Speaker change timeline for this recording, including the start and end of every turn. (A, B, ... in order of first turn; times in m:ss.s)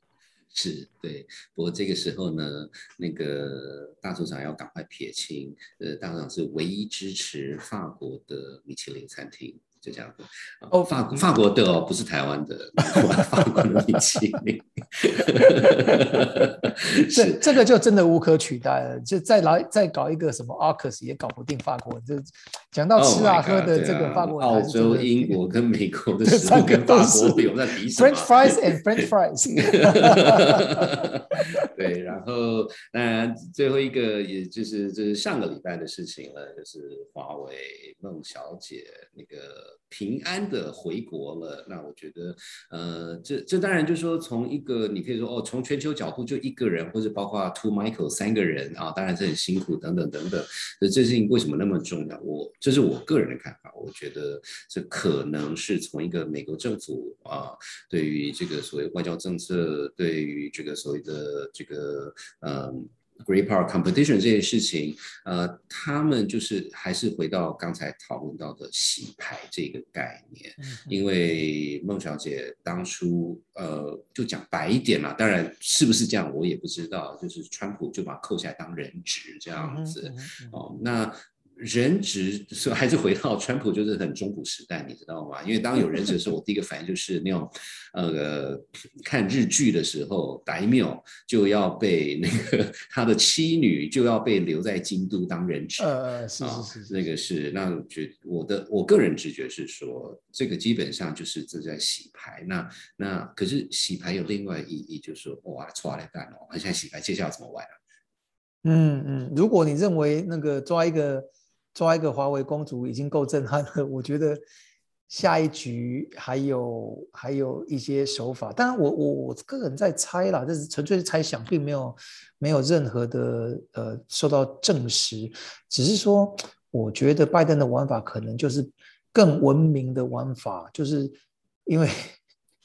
0:00.5-0:17.5 A
0:10.7-0:11.2 B
0:16.9-0:25.4 B
0:23.0-0:28.6 A
0:26.2-0:31.4 B
0:29.6-1:47.8 A
1:10.6-1:11.4 B
1:19.6-1:20.6 B
1:35.8-1:37.0 B
1:48.6-1:54.4 B
1:55.1-2:11.2 B
2:11.7-2:12.1 B